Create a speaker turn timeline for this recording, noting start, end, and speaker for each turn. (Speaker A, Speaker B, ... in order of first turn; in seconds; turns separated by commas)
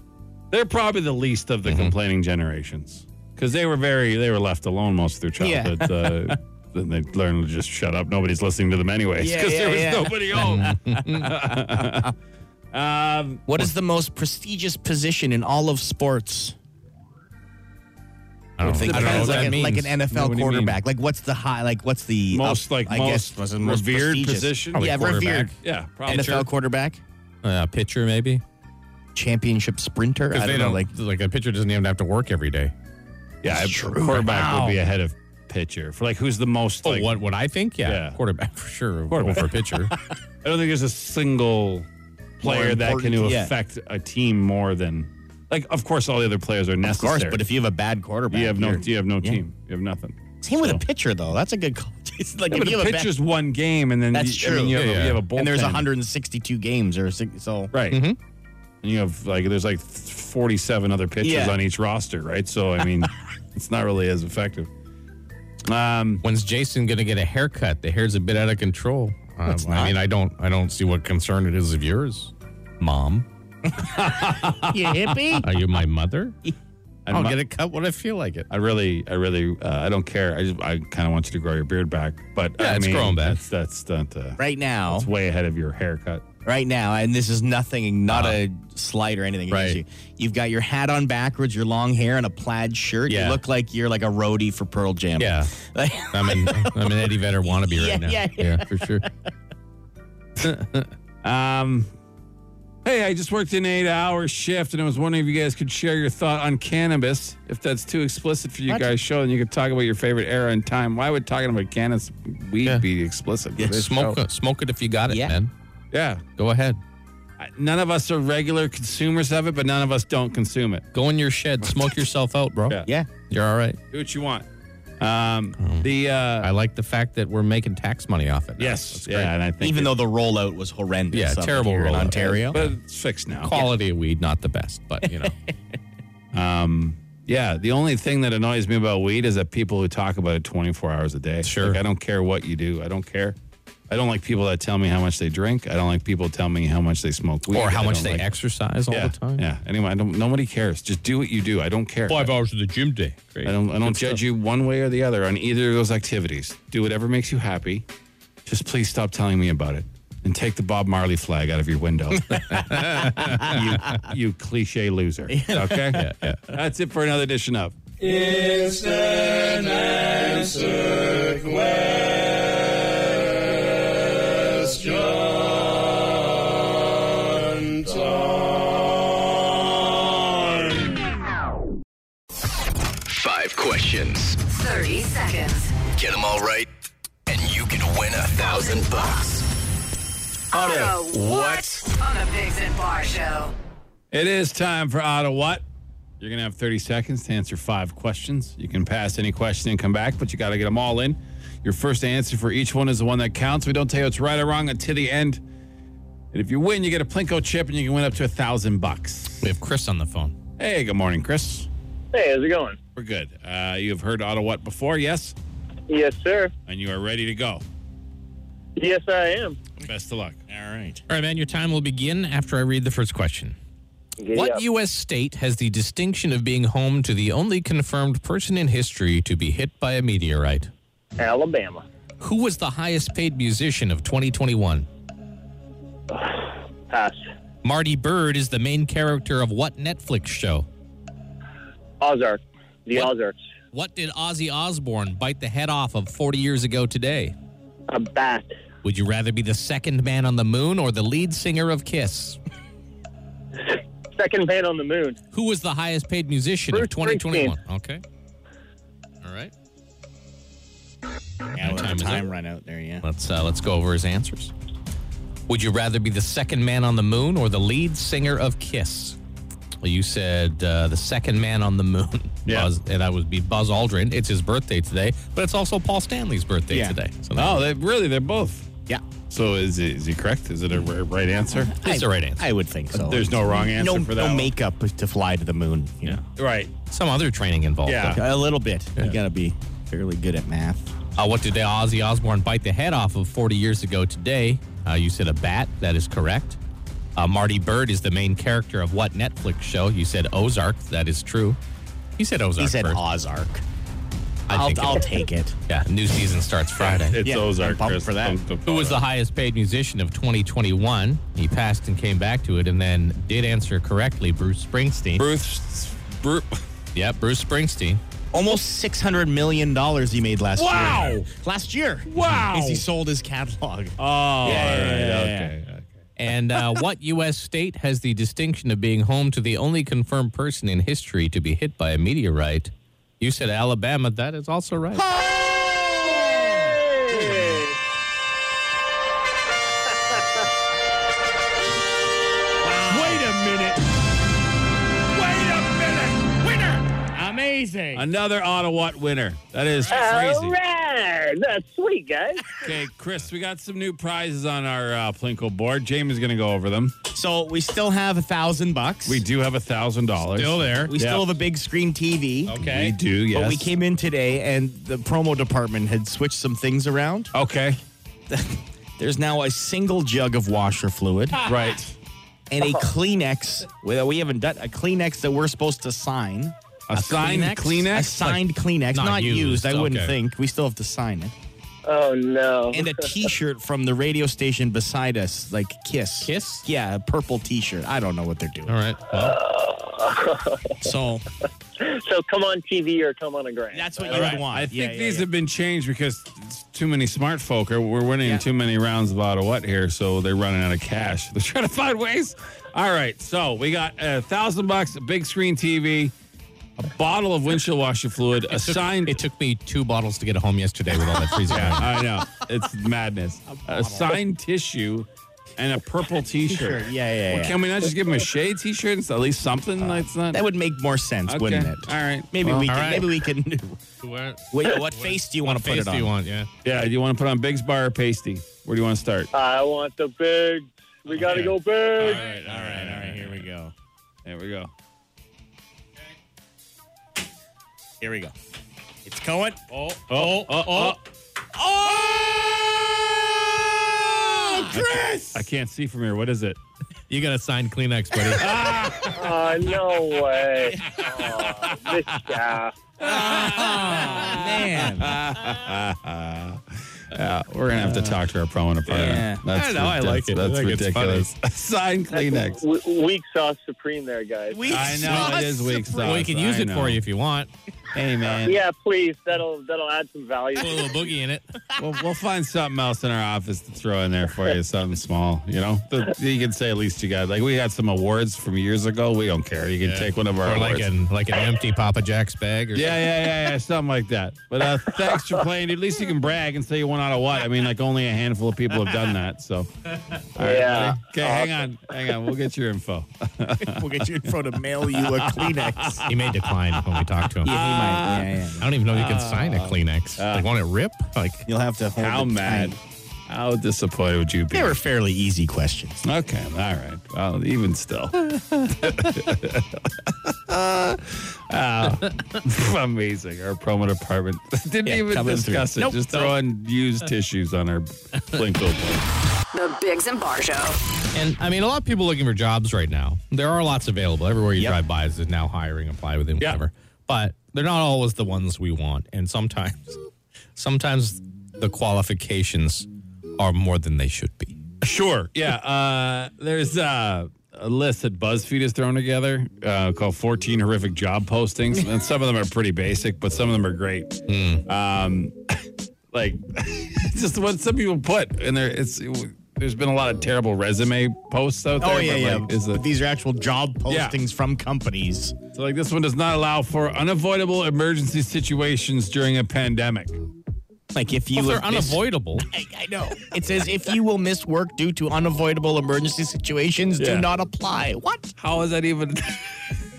Speaker A: 0.5-12.1, Speaker B: 1.6-1.9, Speaker C: 5.4-6.4, Speaker C: 9.2-12.1, Speaker B: 10.3-11.3, Speaker A: 12.7-13.6, Speaker C: 13.5-16.5, Speaker B: 18.6-20.0, Speaker A: 18.6-20.8, Speaker C: 18.9-25.5, Speaker A: 22.3-26.5, Speaker B: 24.7-25.5, Speaker C: 26.1-27.0, Speaker B: 26.1-26.5, Speaker B: 27.4-28.4, Speaker C: 29.1-30.9, Speaker B: 30.3-32.7, Speaker A: 33.4-37.2, Speaker C: 33.4-34.8, Speaker B: 36.9-39.9, Speaker A: 37.9-38.2, Speaker A: 39.1-39.5, Speaker A: 40.4-41.9, Speaker C: 42.4-43.5, Speaker A: 42.4-47.4, Speaker C: 46.8-49.4, Speaker A: 48.3-50.8, Speaker C: 50.4-53.2, Speaker A: 52.5-55.9, Speaker C: 54.1-57.7, Speaker B: 54.7-55.2, Speaker A: 57.7-58.0, Speaker B: 57.9-58.2, Speaker A: 58.8-64.7, Speaker C: 61.2-61.6, Speaker A: 65.7-66.2, Speaker B: 66.2-73.2, Speaker C: 69.5-70.0, Speaker A: 73.8-75.1, Speaker C: 74.3-75.5, Speaker B: 75.4-76.4, Speaker A: 77.1-77.4, Speaker B: 77.1-78.5, Speaker A: 78.5-86.2, Speaker B: 82.6-83.4, Speaker C: 84.4-85.1, Speaker C: 86.4-99.3, Speaker B: 88.1-88.4, Speaker B: 89.5-89.8, Speaker B: 93.1-93.4, Speaker B: 95.2-95.5, Speaker B: 96.1-99.0, Speaker B: 100.4-100.9, Speaker A: 101.2-101.9, Speaker A: 102.8-114.2, Speaker B: 113.6-115.5, Speaker C: 115.1-115.3, Speaker A: 115.9-116.2, Speaker B: 116.4-116.8, Speaker A: 117.4-120.9, Speaker B: 120.9-123.8, Speaker A: 123.9-124.5, Speaker A: 125.0-126.5, Speaker B: 125.6-125.9, Speaker B: 126.4-129.3, Speaker A: 128.6-129.9, Speaker C: 129.6-132.6, Speaker B: 131.1-132.8, Speaker A: 132.5-133.6, Speaker B: 133.4-135.3, Speaker C: 135.1-135.3, Speaker A: 136.3-143.4, Speaker B: 141.4-141.8, Speaker A: 143.9-148.3, Speaker B: 147.5-149.4, Speaker A: 148.9-152.3, Speaker B: 152.1-154.2, Speaker A: 153.4-157.8, Speaker A: 158.5-167.8, Speaker B: 162.3-164.0, Speaker C: 165.3-166.1, Speaker B: 165.9-166.4, Speaker C: 168.1-171.8, Speaker D: 183.1-184.4, Speaker E: 184.4-185.8, Speaker D: 185.9-186.7, Speaker D: 187.3-189.4, Speaker E: 188.4-188.8, Speaker E: 190.5-193.5, Speaker D: 190.5-191.8, Speaker A: 190.6-190.9, Speaker A: 194.1-195.6, Speaker A: 196.2-205.4, Speaker A: 206.3-209.5, Speaker B: 209.4-210.3, Speaker A: 210.6-211.7, Speaker F: 212.1-212.8, Speaker A: 213.0-215.3, Speaker F: 215.9-216.5, Speaker A: 216.7-217.6, Speaker F: 218.8-219.6, Speaker A: 219.8-220.4, Speaker C: 220.5-221.0, Speaker B: 221.1-223.6, Speaker F: 224.2-224.6, Speaker B: 224.3-230.7, Speaker F: 231.2-231.8, Speaker B: 232.2-234.9, Speaker F: 236.1-237.2, Speaker B: 237.6-240.7, Speaker F: 242.0-243.4, Speaker B: 243.7-247.3, Speaker F: 247.9-248.5, Speaker B: 248.8-252.4, Speaker F: 253.6-255.2, Speaker B: 255.3-258.0, Speaker F: 256.7-257.6, Speaker B: 259.2-259.5, Speaker C: 261.5-263.0, Speaker B: 261.6-262.3, Speaker B: 263.0-264.5, Speaker B: 265.5-269.2, Speaker B: 269.8-277.6, Speaker C: 276.7-277.0, Speaker A: 277.3-278.7, Speaker A: 279.3-281.7, Speaker C: 281.7-286.2, Speaker B: 281.8-282.5, Speaker A: 282.9-284.5, Speaker A: 286.3-286.7, Speaker B: 286.9-288.2, Speaker A: 287.9-288.2, Speaker C: 288.1-290.9, Speaker B: 291.2-296.6, Speaker B: 297.2-301.6, Speaker B: 302.2-303.0, Speaker C: 302.6-303.6, Speaker B: 304.5-305.1, Speaker C: 304.5-305.5, Speaker B: 305.7-307.2, Speaker A: 306.8-309.0, Speaker C: 307.2-308.4, Speaker B: 308.6-315.2, Speaker A: 315.2-316.5, Speaker B: 316.9-318.0, Speaker C: 318.3-325.5, Speaker A: 320.6-321.2, Speaker A: 322.1-322.8, Speaker A: 324.0-325.9, Speaker B: 326.2-335.1, Speaker C: 335.0-336.6, Speaker F: 336.6-337.8, Speaker C: 342.6-343.5, Speaker A: 342.8-343.8, Speaker A: 345.1-346.8, Speaker C: 347.1-348.0, Speaker A: 347.9-350.6, Speaker F: 349.9-352.6, Speaker A: 352.6-356.9, Speaker C: 357.1-359.2, Speaker A: 359.1-361.3, Speaker B: 360.3-360.9, Speaker C: 360.9-362.6, Speaker B: 362.5-362.9, Speaker A: 362.6-363.7, Speaker C: 363.3-367.3, Speaker A: 367.3-367.8, Speaker C: 368.3-371.4, Speaker A: 371.4-371.9, Speaker C: 372.5-381.3, Speaker F: 372.6-372.9, Speaker A: 376.9-378.4, Speaker B: 376.9-377.5, Speaker B: 378.9-380.2, Speaker F: 381.9-383.2, Speaker C: 382.7-388.8, Speaker B: 386.2-386.7, Speaker B: 388.7-389.4, Speaker F: 389.2-390.8, Speaker C: 390.8-391.2, Speaker F: 391.8-394.4, Speaker C: 393.7-395.3, Speaker A: 394.1-406.1, Speaker A: 406.8-409.2, Speaker B: 408.5-411.9, Speaker A: 411.5-420.4, Speaker C: 413.5-414.1, Speaker C: 416.5-417.6, Speaker C: 419.8-423.8, Speaker A: 421.3-422.8, Speaker B: 422.7-423.1, Speaker B: 424.0-426.5, Speaker C: 424.5-426.1, Speaker A: 426.6-429.3, Speaker F: 429.3-432.2, Speaker B: 431.1-431.5, Speaker A: 432.0-433.4, Speaker C: 432.2-433.7, Speaker A: 434.2-434.7, Speaker C: 438.0-438.3, Speaker C: 439.0-441.0, Speaker A: 440.1-441.0, Speaker C: 441.5-445.5, Speaker A: 444.7-446.6, Speaker B: 447.1-448.5, Speaker A: 448.4-449.3, Speaker F: 449.1-452.7, Speaker A: 453.0-462.6, Speaker C: 453.0-455.2, Speaker C: 458.9-459.4, Speaker B: 459.0-461.3, Speaker F: 462.1-464.9, Speaker C: 464.5-466.2, Speaker A: 464.7-467.0, Speaker B: 465.1-465.4, Speaker B: 466.0-467.5, Speaker A: 467.9-468.6, Speaker F: 468.4-471.0, Speaker B: 470.6-471.4, Speaker A: 471.8-480.9, Speaker B: 479.8-483.0, Speaker A: 482.7-494.3, Speaker F: 490.4-491.6, Speaker C: 493.6-496.0, Speaker A: 494.9-500.5, Speaker B: 496.1-497.5, Speaker C: 497.4-498.7, Speaker B: 498.6-501.5, Speaker C: 501.5-502.8, Speaker A: 502.0-504.8, Speaker C: 504.5-506.0, Speaker A: 506.0-519.0, Speaker C: 514.8-516.3, Speaker E: 519.5-520.8, Speaker B: 521.1-530.0, Speaker B: 530.5-532.9, Speaker B: 533.4-534.6, Speaker A: 534.8-545.3, Speaker B: 544.3-544.6, Speaker A: 546.1-552.8, Speaker C: 551.8-555.3, Speaker A: 553.9-554.2, Speaker A: 555.5-560.2, Speaker C: 560.9-568.3, Speaker B: 561.3-562.5, Speaker A: 567.0-567.3, Speaker A: 568.4-569.6